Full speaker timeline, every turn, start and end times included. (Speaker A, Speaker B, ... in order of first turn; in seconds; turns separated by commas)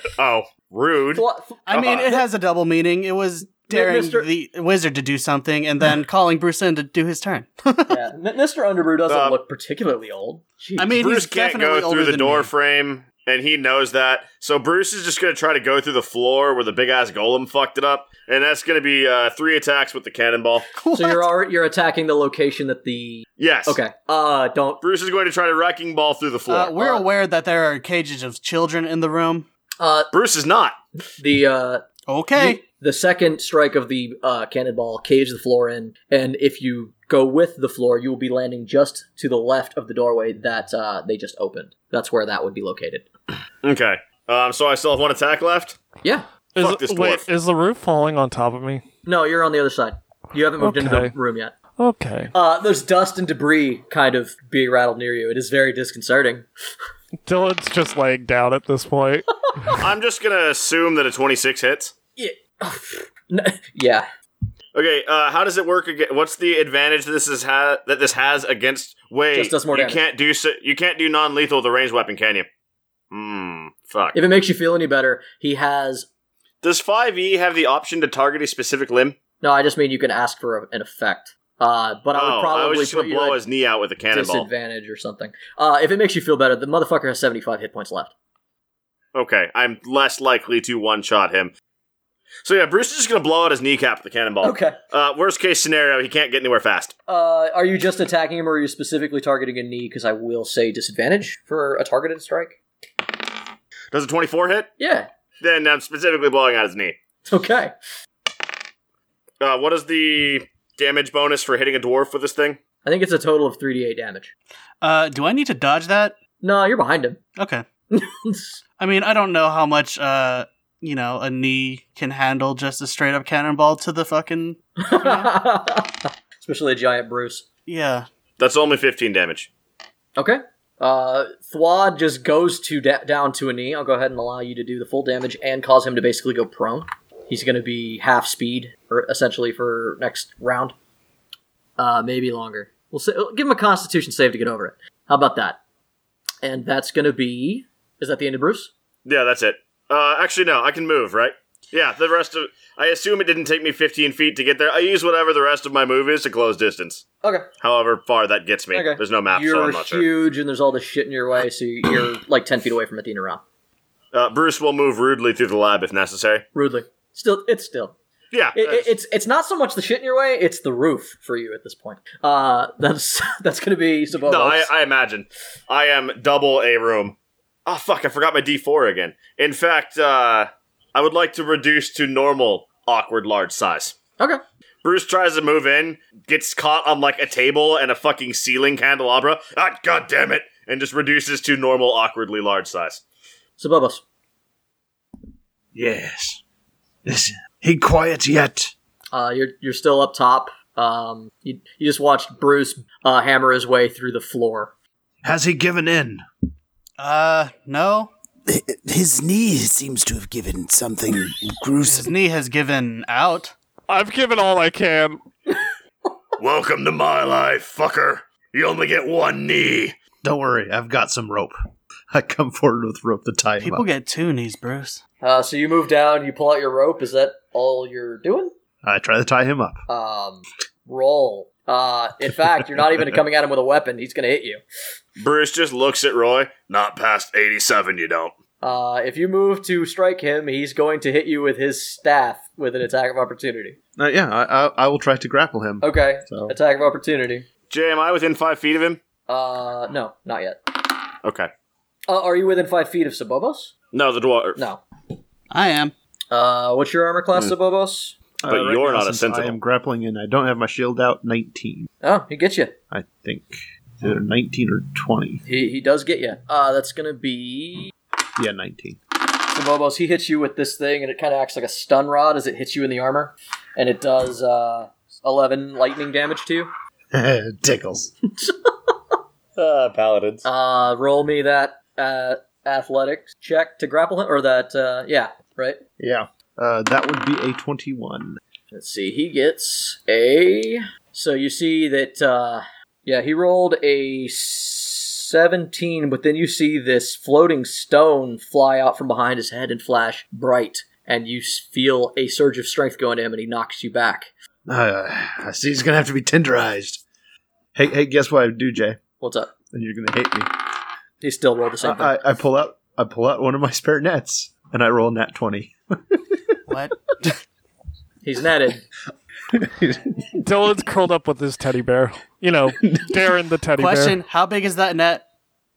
Speaker A: 0.2-1.2, Speaker B: 1.1-2.2, Speaker C: 1.7-8.0, Speaker B: 3.6-4.3, Speaker B: 7.9-11.0, Speaker A: 9.1-9.4, Speaker C: 10.8-12.5, Speaker A: 10.9-20.7, Speaker C: 20.7-21.2, Speaker B: 20.9-24.8, Speaker A: 23.4-23.8, Speaker A: 24.8-26.9, Speaker C: 26.5-29.4, Speaker B: 26.8-27.0, Speaker B: 29.8-30.1, Speaker A: 30.1-30.8, Speaker B: 31.2-31.8, Speaker C: 32.1-32.6, Speaker B: 32.3-43.0, Speaker A: 43.6-45.8, Speaker D: 46.5-48.8, Speaker A: 46.6-47.2, Speaker B: 49.0-51.5, Speaker D: 50.6-51.1, Speaker D: 51.8-52.3, Speaker B: 52.3-56.5, Speaker D: 57.2-59.8, Speaker A: 59.8-61.9, Speaker B: 62.2-64.1, Speaker A: 64.7-72.5, Speaker B: 69.3-70.0, Speaker A: 73.1-74.2, Speaker B: 74.1-76.1, Speaker A: 76.6-79.2, Speaker B: 79.4-83.4, Speaker A: 82.1-84.5, Speaker B: 84.1-88.1, Speaker A: 89.1-91.5, Speaker A: 92.4-96.9, Speaker B: 94.4-94.8, Speaker B: 97.1-102.6, Speaker A: 103.9-104.7, Speaker B: 104.8-105.1, Speaker A: 105.4-107.0, Speaker B: 107.2-107.7, Speaker A: 109.4-112.6, Speaker B: 112.8-114.3, Speaker C: 114.8-116.2, Speaker B: 116.4-117.2, Speaker C: 117.4-117.7, Speaker B: 117.9-118.6, Speaker C: 118.8-125.3, Speaker B: 124.8-127.4, Speaker C: 127.7-128.1, Speaker A: 128.4-129.5, Speaker B: 130.2-140.7, Speaker B: 141.8-145.6, Speaker B: 146.4-148.7, Speaker A: 149.0-157.0, Speaker A: 157.6-160.1, Speaker B: 158.7-163.4, Speaker A: 164.1-166.4, Speaker B: 166.5-167.9, Speaker A: 168.3-168.9, Speaker B: 168.5-174.7, Speaker A: 174.2-183.9, Speaker A: 184.8-193.0, Speaker B: 193.6-194.0, Speaker E: 195.7-196.4, Speaker E: 197.0-198.7, Speaker B: 199.1-204.7, Speaker E: 205.2-206.2, Speaker C: 207.0-208.1, Speaker F: 208.5-212.1, Speaker C: 211.8-213.5, Speaker D: 213.9-215.2, Speaker A: 216.4-220.0, Speaker E: 220.2-221.6, Speaker E: 222.1-223.8, Speaker C: 223.6-225.0, Speaker B: 225.2-228.5, Speaker E: 228.8-229.8, Speaker B: 229.9-234.6, Speaker A: 235.2-238.3, Speaker B: 238.6-243.8, Speaker E: 244.0-246.5, Speaker B: 245.8-247.4, Speaker A: 247.7-249.0, Speaker B: 249.3-250.8, Speaker A: 251.2-251.5, Speaker B: 252.1-253.7, Speaker A: 253.9-254.6, Speaker B: 254.6-254.8, Speaker C: 255.5-255.9, Speaker B: 256.3-258.1, Speaker E: 258.4-261.9, Speaker A: 258.5-259.6, Speaker B: 262.0-262.7, Speaker E: 262.9-265.4, Speaker B: 265.4-267.9, Speaker E: 268.4-269.0, Speaker B: 269.5-276.7, Speaker E: 277.1-278.1, Speaker B: 278.4-278.7, Speaker A: 279.6-280.4, Speaker B: 280.4-285.8, Speaker E: 286.0-288.4, Speaker B: 288.7-304.3, Speaker E: 304.6-307.0, Speaker E: 307.7-309.0, Speaker B: 309.2-309.5, Speaker E: 309.7-310.5, Speaker B: 311.2-312.2, Speaker E: 311.8-316.2, Speaker C: 316.7-317.3, Speaker B: 318.2-318.8, Speaker E: 319.5-320.1, Speaker D: 320.4-324.2, Speaker C: 323.8-325.2